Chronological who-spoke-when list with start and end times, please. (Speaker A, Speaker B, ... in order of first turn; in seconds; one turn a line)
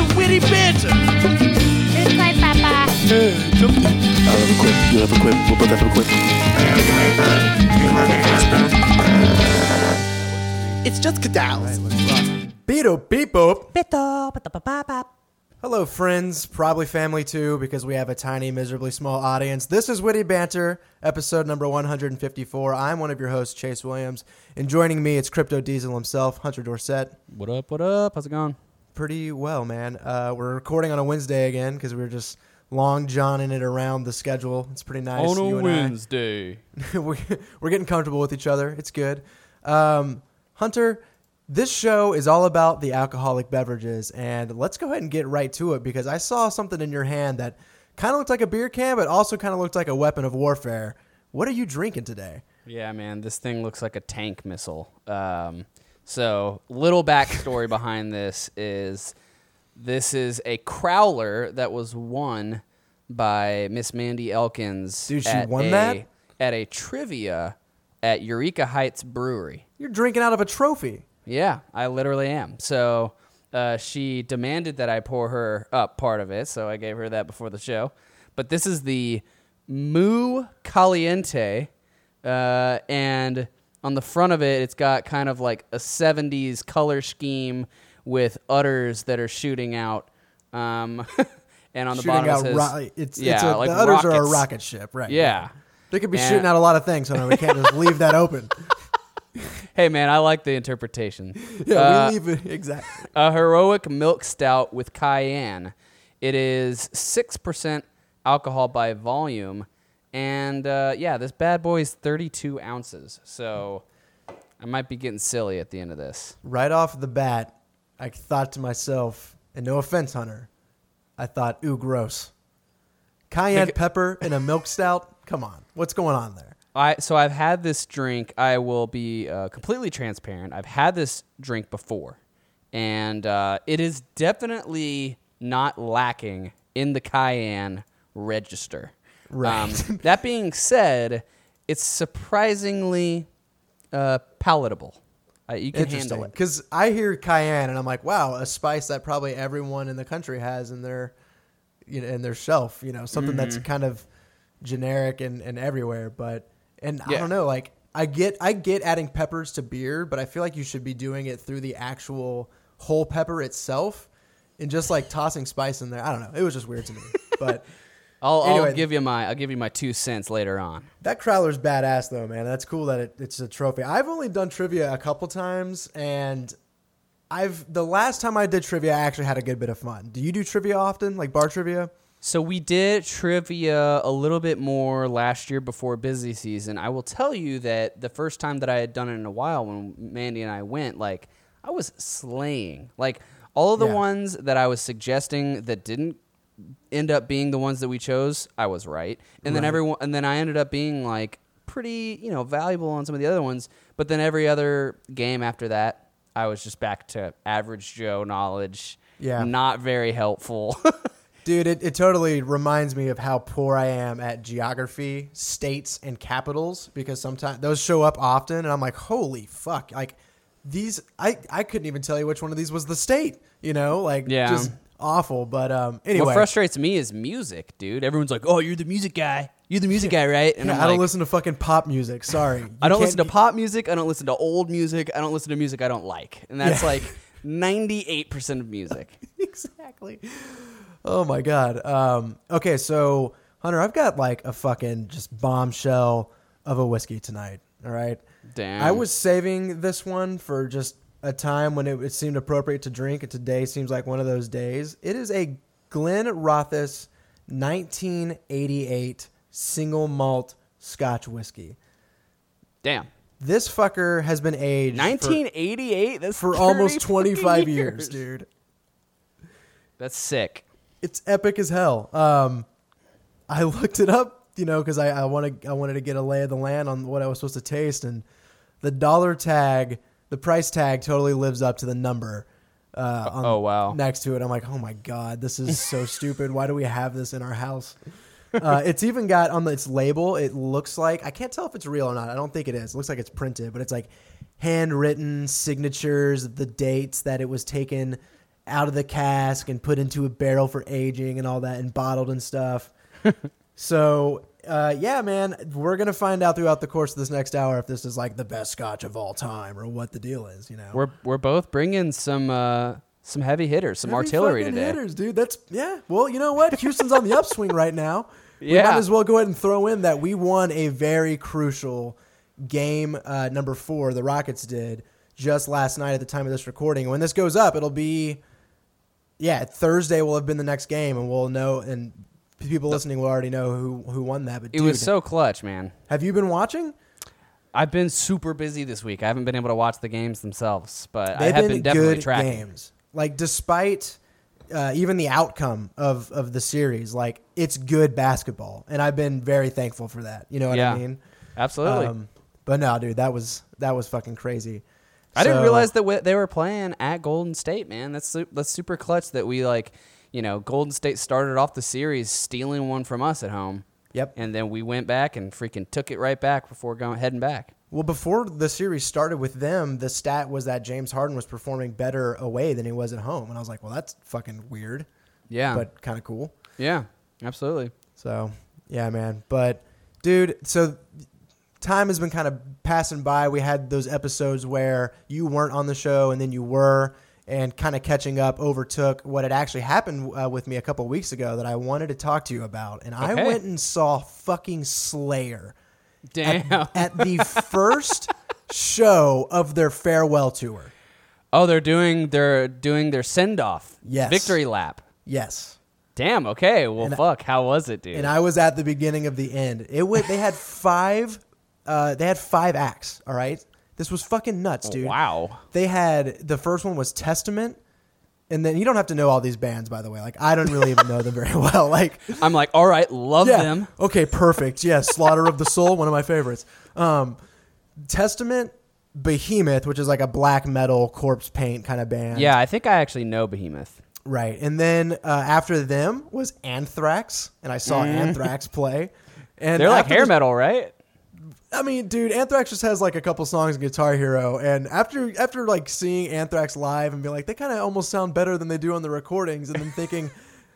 Speaker A: 0.2-0.7
Speaker A: 1.9-3.0
Speaker A: 8.0-8.5
Speaker A: 10.8-11.8
Speaker B: 12.6-13.7
Speaker A: 13.7-15.1
Speaker B: 15.6-27.2
Speaker C: 27.3-28.6
Speaker B: 28.9-36.0
Speaker C: 35.1-36.6
Speaker B: 36.8-52.4
Speaker C: 52.7-59.1
Speaker C: 59.8-69.7
Speaker B: 65.1-66.0
Speaker B: 69.8-71.0
Speaker C: 71.3-81.7
Speaker C: 82.2-94.5
Speaker B: 91.9-98.8
Speaker C: 95.1-95.5
Speaker C: 96.1-96.5
Speaker C: 97.3-97.7
Speaker C: 99.7-102.2
Speaker B: 101.5-103.1
Speaker C: 103.1-113.8
Speaker C: 114.6-116.4
Speaker B: 116.4-120.5
Speaker B: 121.2-122.3
Speaker B: 123.3-126.5
Speaker C: 126.8-132.2
Speaker C: 132.7-143.3
Speaker B: 139.3-140.0
Speaker C: 143.9-146.3
Speaker B: 145.7-151.1
Speaker B: 151.9-154.1
Speaker C: 153.1-153.7
Speaker B: 154.6-167.7
Speaker C: 168.2-170.9
Speaker B: 168.4-168.9
Speaker B: 171.0-176.6
Speaker B: 177.3-181.9
Speaker C: 182.2-196.2
Speaker C: 196.9-211.1
Speaker B: 199.4-199.8
Speaker B: 209.2-209.5
Speaker B: 211.4-226.5
Speaker C: 224.3-224.8
Speaker C: 226.2-231.1
Speaker B: 230.6-233.3
Speaker C: 232.8-239.2
Speaker B: 236.6-237.1
Speaker B: 239.3-248.2
Speaker C: 248.5-249.1
Speaker B: 248.8-261.8
Speaker C: 262.8-263.1
Speaker B: 263.4-265.4
Speaker C: 264.9-268.2
Speaker B: 266.4-268.5
Speaker C: 270.0-270.6
Speaker B: 271.0-272.7
Speaker B: 273.5-278.2
Speaker B: 278.8-288.0
Speaker C: 283.3-284.0
Speaker B: 288.6-302.9
Speaker B: 303.8-311.0
Speaker C: 310.9-315.0
Speaker B: 314.0-328.4
Speaker C: 318.6-319.0
Speaker B: 329.4-335.1
Speaker C: 334.7-335.9
Speaker B: 336.1-336.9
Speaker C: 337.7-342.6
Speaker B: 341.3-344.2
Speaker B: 344.7-351.2
Speaker C: 350.7-351.0
Speaker C: 351.6-352.1
Speaker B: 351.8-354.8
Speaker B: 355.4-355.9
Speaker C: 355.4-367.7
Speaker B: 367.9-375.1
Speaker C: 375.5-375.9
Speaker B: 375.7-376.5
Speaker C: 376.8-377.9
Speaker B: 378.2-381.2
Speaker B: 381.8-395.8
Speaker C: 393.2-393.6
Speaker C: 396.3-397.9
Speaker B: 396.4-400.9
Speaker C: 401.5-405.0
Speaker B: 404.1-404.6
Speaker B: 405.3-405.8
Speaker C: 406.2-408.3
Speaker B: 408.1-417.8
Speaker C: 414.9-415.6
Speaker B: 418.5-422.4
Speaker C: 422.4-423.9
Speaker B: 423.4-427.4
Speaker B: 428.0-432.6
Speaker C: 432.3-434.0
Speaker B: 434.2-440.3
Speaker C: 437.9-438.5
Speaker C: 439.8-440.9
Speaker B: 441.7-450.3